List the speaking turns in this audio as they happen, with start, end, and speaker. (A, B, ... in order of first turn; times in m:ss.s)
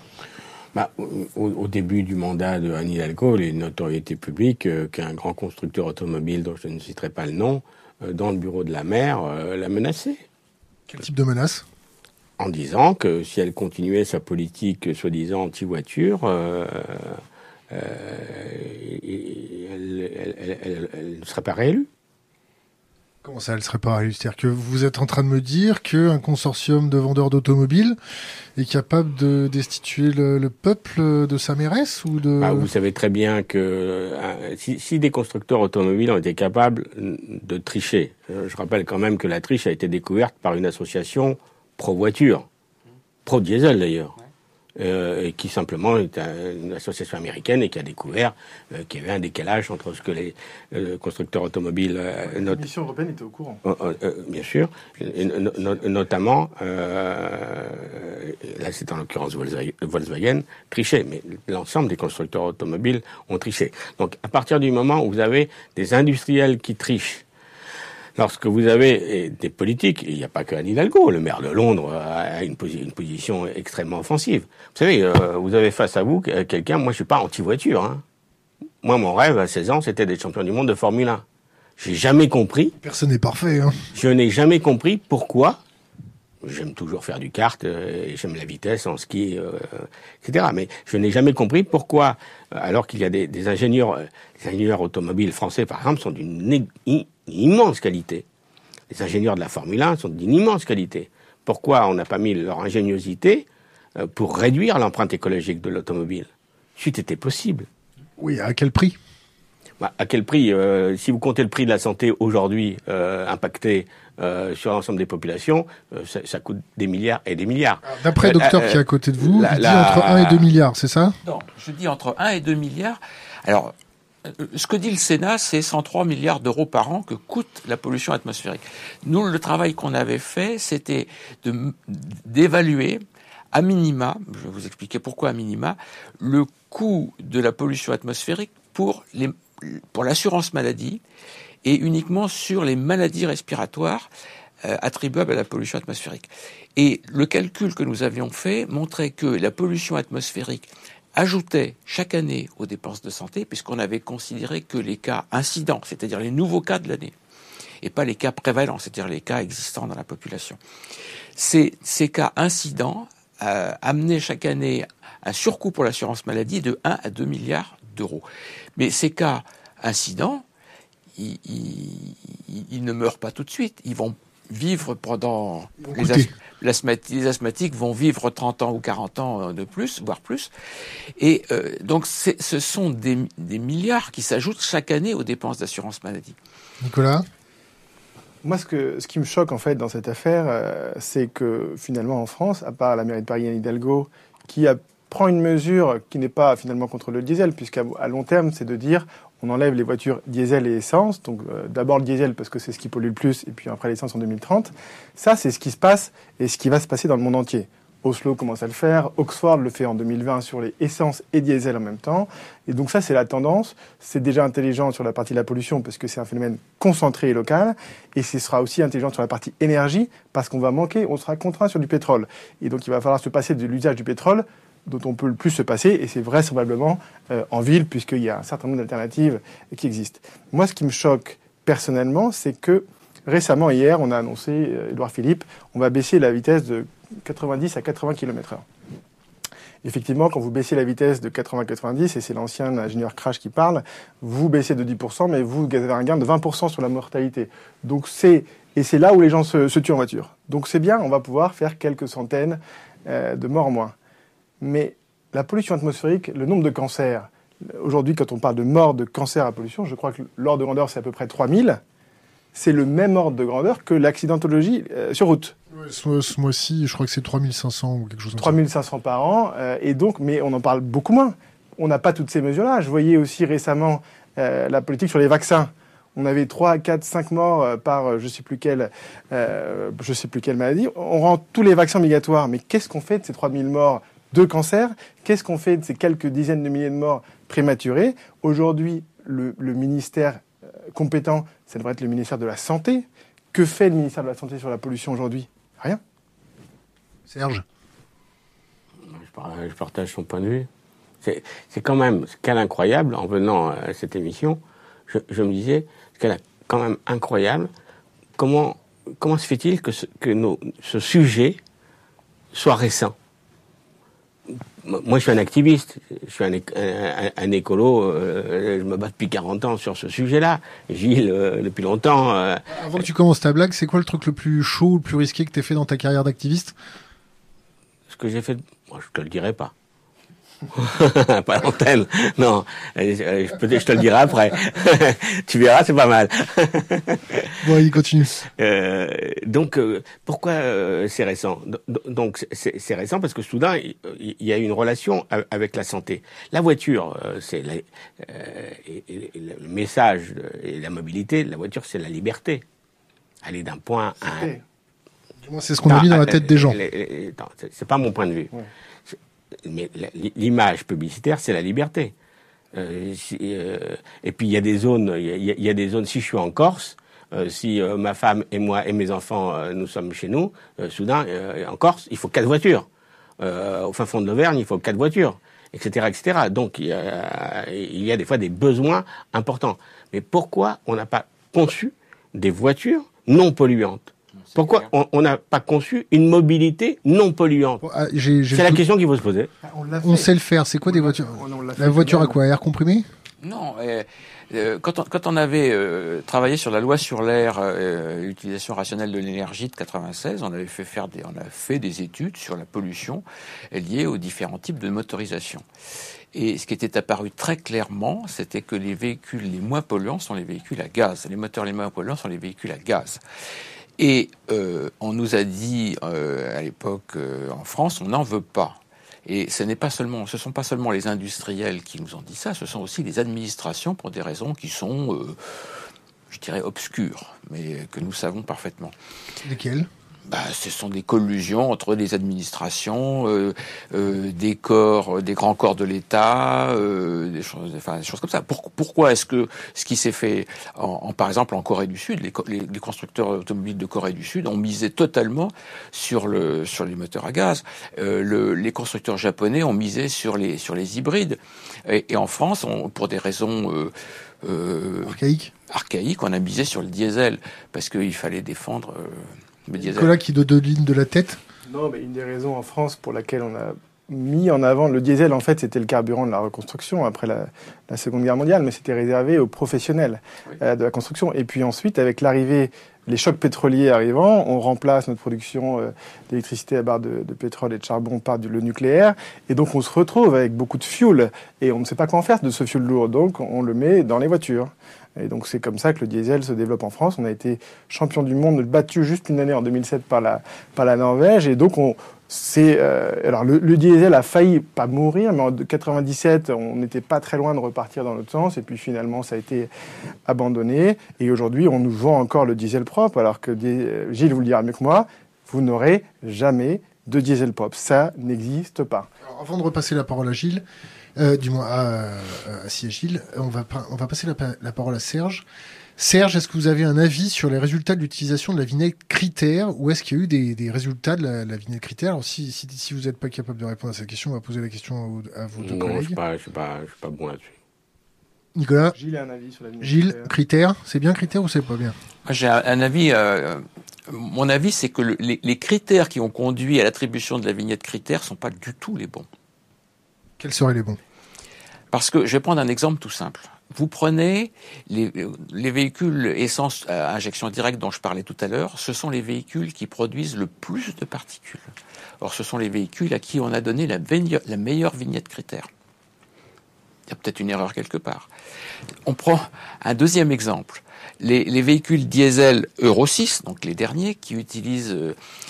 0:00.7-0:10.2 A
0:10.9-0:11.7 B
0:12.4-0:21.9 A
0:23.2-0:28.0 B
0:28.6-0:32.7 B
0:32.4-0:42.5 A
0:43.3-0:44.2 A
0:44.8-0:52.6 A
0:52.3-0:53.6 C
0:53.6-1:07.2 A
1:08.2-1:18.0 A
1:18.8-1:21.2 A
1:21.8-1:22.8 A
1:22.8-1:23.8 B
1:23.9-1:25.6 A
1:26.4-1:38.2 A
1:38.9-1:47.7 A
1:48.2-1:49.0 B
1:49.8-2:00.5 A
1:57.8-2:01.2 B
2:01.2-2:21.0 D
2:21.6-2:24.1 D
2:24.6-2:37.1 D
2:37.8-2:40.6 D
2:41.4-2:48.2 D
2:48.8-2:50.4 D
2:51.2-3:00.5 D
2:55.8-2:56.3 B
3:01.2-3:06.4 D
3:06.8-3:07.3 B
3:08.4-3:58.6 C
3:59.8-4:14.0 C
4:14.6-4:21.8 C
4:22.6-4:25.6 C
4:25.7-4:28.6 B
4:28.4-4:56.0 C
4:57.3-4:57.6 B
4:59.0-5:00.7 A
5:01.2-5:07.7 A
5:08.4-5:11.6 A
5:12.5-5:13.2 A
5:14.5-5:22.7 A
5:22.7-5:26.8 B
5:28.1-5:29.7 A
5:30.7-5:37.7 A
5:37.6-5:38.4 B
5:38.3-5:52.6 A
5:53.4-5:54.5 A
5:54.3-5:54.6 C
5:55.4-5:56.8 B
5:55.9-5:58.5 A
5:59.1-6:02.1 A
6:02.7-6:12.9 A
6:13.4-6:27.8 A
6:27.8-6:28.8 B
6:28.5-6:29.5 A
6:29.6-6:30.3 C
6:30.0-6:33.1 B
6:30.9-6:32.4 C
6:33.4-6:45.6 D
6:46.3-6:53.2 D
6:54.0-7:09.0 D
7:09.4-7:09.9 B
7:10.3-7:35.2 D
7:35.0-7:35.5 B
7:35.7-7:40.1 D
7:39.8-7:41.4 B
7:41.7-8:19.7 C
8:20.3-8:29.1 C
8:29.2-8:30.6 B
8:31.2-8:35.4 B
8:36.0-8:46.2 B
8:45.6-8:47.6 A
8:48.6-8:49.0 B
8:48.9-8:50.3 C
8:49.8-8:52.0 B
8:52.3-8:59.3 D
9:00.4-9:01.0 B
9:01.9-9:11.7 D
9:12.2-9:15.7 D
9:17.1-9:18.3 D
9:19.1-9:25.2 D